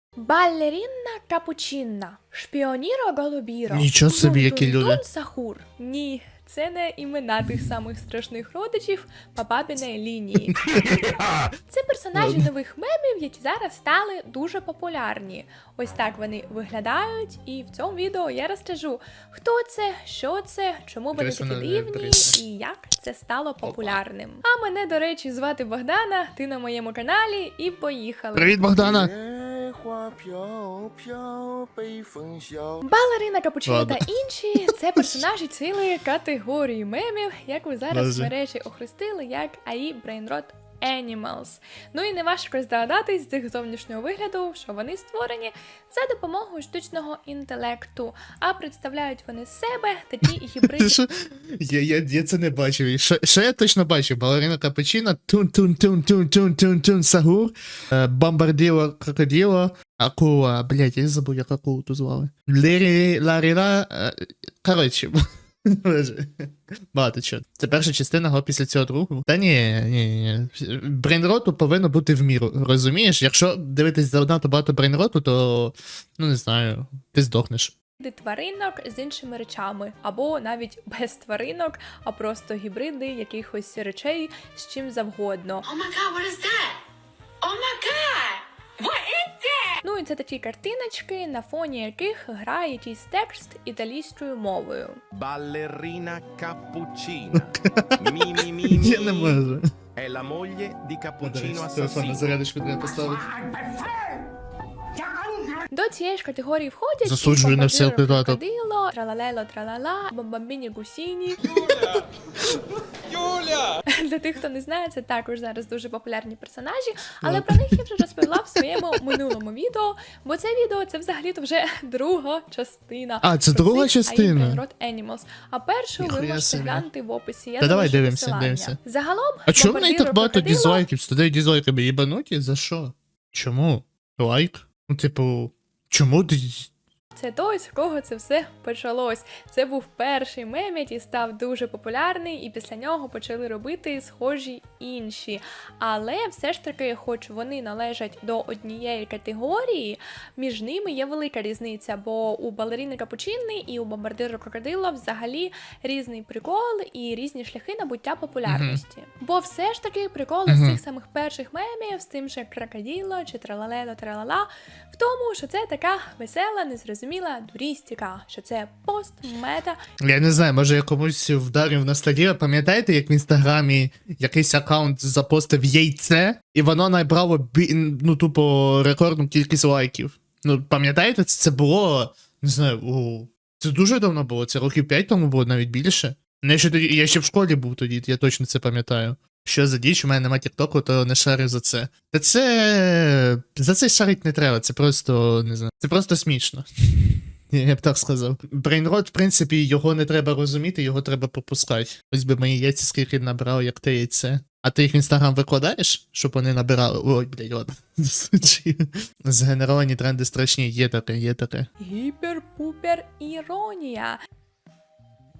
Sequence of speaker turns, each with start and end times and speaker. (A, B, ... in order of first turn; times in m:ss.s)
0:00.2-0:10.6 A
0:03.7-0:05.0 B
0:10.8-0:11.3 B
0:11.7-0:28.6 A
0:12.2-0:12.5 B
0:21.2-0:22.4 B
0:23.6-0:24.0 B
0:28.3-0:29.1 B
0:28.8-0:32.8 C
0:32.8-0:51.0 A
0:33.7-0:34.0 B
0:35.0-0:35.2 B
0:37.9-0:38.3 B
0:50.7-1:05.2 B
1:05.7-1:17.7 B
1:18.0-1:25.7 A
1:25.6-1:26.8 D
1:27.4-1:29.8 D
1:29.8-1:35.0 A
1:35.1-1:39.4 E
1:37.4-1:38.0 B
1:38.6-1:39.6 B
1:40.0-1:42.3 E
1:41.2-1:43.7 B
1:45.7-1:51.7 A
1:47.0-1:48.4 B
1:53.9-2:10.8 A
1:57.2-1:58.3 B
2:03.2-2:04.6 B
2:06.0-2:06.9 B
2:07.6-2:08.8 B
2:09.5-2:16.7 B
2:17.2-2:49.8 A
2:38.5-2:38.8 B
2:40.5-2:40.8 B
2:50.0-3:31.7 B
3:31.8-3:34.2 A